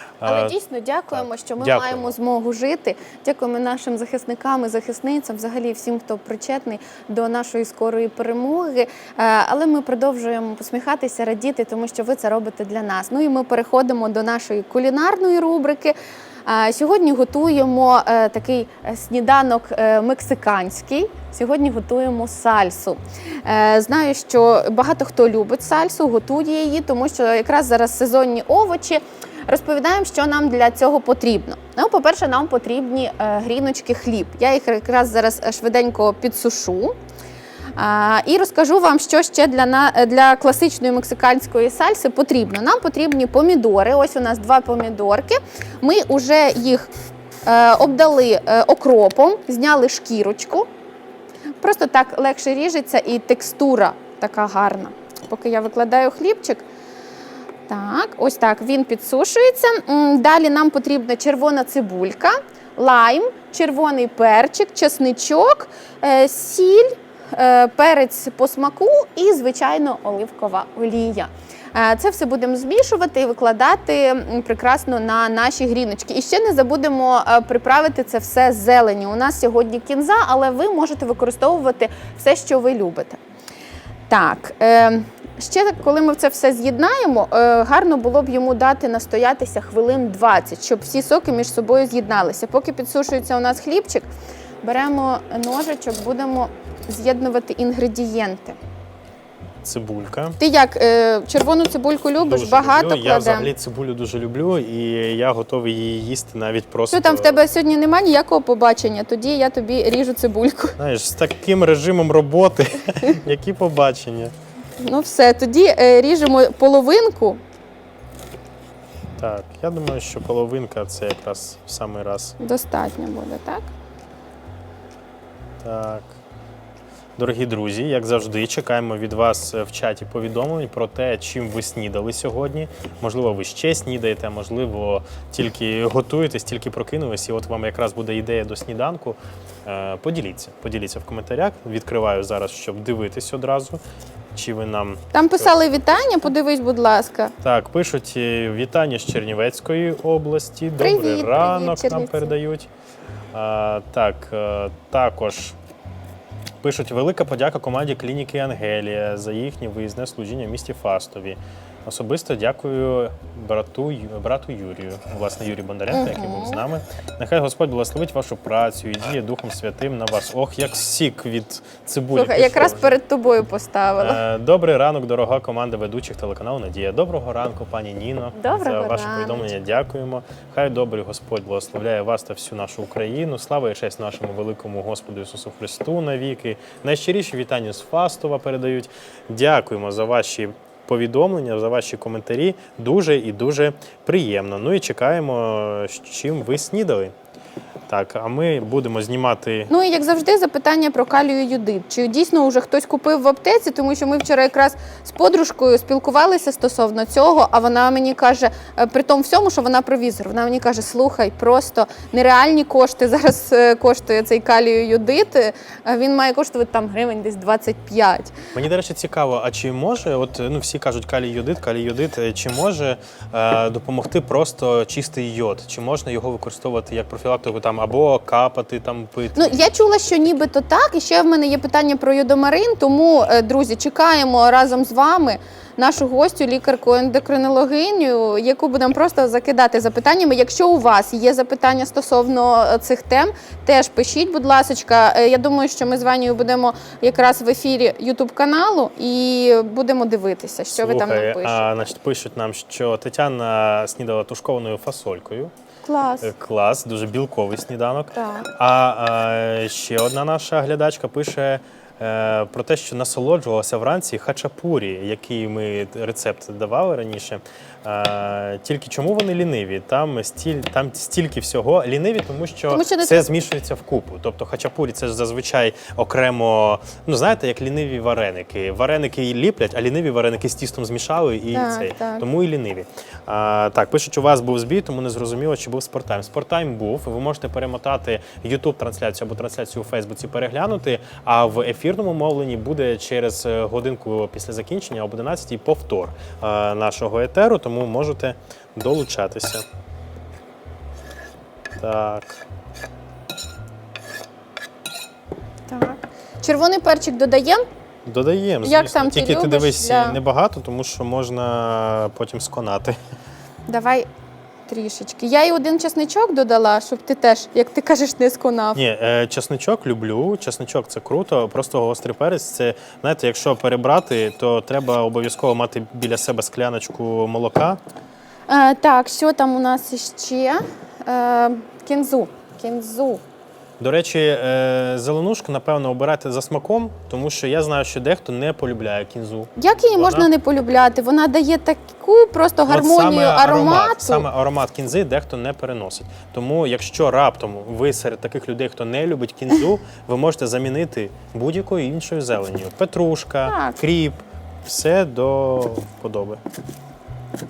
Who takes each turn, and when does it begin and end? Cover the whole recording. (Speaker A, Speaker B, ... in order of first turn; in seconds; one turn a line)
Speaker A: 0.2-0.5
Speaker B: 0.2-15.9
Speaker A: 1.1-2.1
Speaker B: 16.4-36.9
Speaker B: 37.8-46.9
Speaker B: 47.4-50.6
Speaker B: 51.6-56.6
Speaker B: 57.7-83.2
Speaker B: 84.1-94.1
Speaker B: 94.6-98.6
Speaker A: 99.6-100.4
Speaker B: 100.4-103.5
Speaker A: 102.2-107.4
Speaker B: 106.9-110.8
Speaker A: 110.8-114.3
Speaker B: 114.8-117.4
Speaker A: 119.2-122.4
Speaker B: 122.4-123.7
Speaker A: 125.6-126.2
Speaker A: 127.2-143.8
Speaker A: 144.3-146.1
Speaker B: 145.1-147.3
Speaker A: 147.4-152.7
Speaker B: 150.8-152.3
Speaker A: 153.3-155.6
Speaker A: 156.6-172.9
Speaker B: 165.9-166.6
Speaker B: 172.1-174.2
Speaker A: 174.0-197.1
Speaker B: 178.3-179.4
Speaker A: 197.9-199.7
Speaker B: 199.7-218.3
Speaker A: 218.5-229.7
Speaker B: 229.3-251.8
Speaker A: 250.7-255.5
Speaker B: 255.8-256.3
Speaker A: 256.2-299.6
Speaker B: 258.1-258.5
Speaker B: 272.7-273.3
Speaker B: 281.5-282.2
Speaker A: 301.8-302.4
Speaker B: 305.7-307.6
Speaker A: 308.1-313.0
Speaker B: 308.6-310.2
Speaker B: 313.7-314.1
Speaker B: 314.7-318.8
Speaker A: 318.7-327.8
Speaker B: 328.5-333.2
Speaker A: 333.8-340.3
Speaker B: 339.6-344.2
Speaker A: 342.7-356.4
Speaker B: 353.4-353.8